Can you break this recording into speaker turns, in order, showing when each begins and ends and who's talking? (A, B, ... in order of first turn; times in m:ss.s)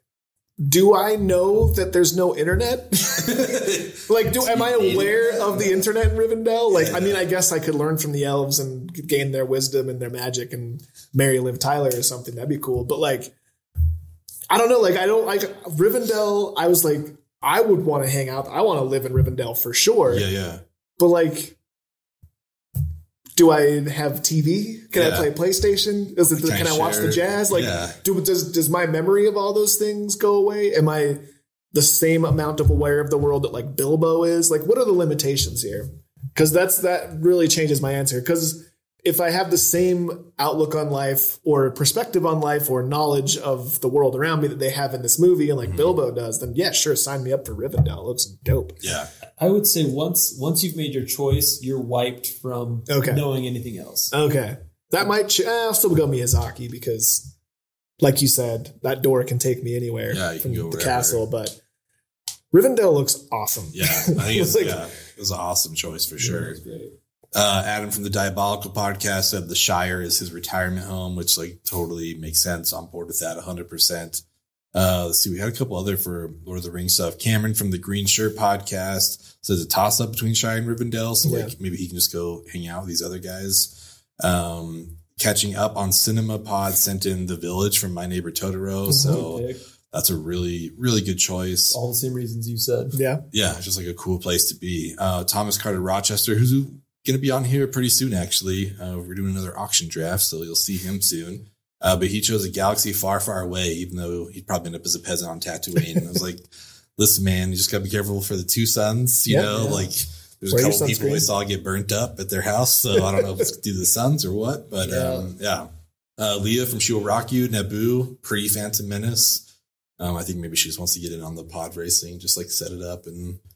0:00.6-0:13.4 A
0:03.2-0:05.8 B
0:06.7-0:07.2 B
0:14.5-0:20.3 A
0:20.1-0:20.6 B
0:21.0-0:21.6 A
0:23.4-0:48.8 A
0:25.0-0:25.3 B
0:26.3-0:28.0 B
0:45.6-0:46.0 B
0:48.8-0:49.1 B
0:49.4-0:54.1 C
0:52.9-0:53.2 A
0:54.1-0:57.3 A
0:58.0-1:01.6 A
1:00.1-1:01.2 B
1:02.5-1:04.8 A
1:03.7-1:06.6 B
1:06.2-1:06.9 C
1:07.3-1:14.2 B
1:14.7-1:31.8 B
1:21.2-1:21.5 A
1:28.9-1:29.2 A
1:29.0-1:29.6 C
1:31.7-1:33.0 C
1:32.9-1:33.2 A
1:33.3-1:46.5 B
1:47.0-1:59.4 B
1:49.3-1:49.6 A
1:49.5-1:49.8 C
1:50.5-1:51.3 A
1:53.0-1:53.3 A
1:54.8-1:55.3 C
2:00.0-2:03.4 B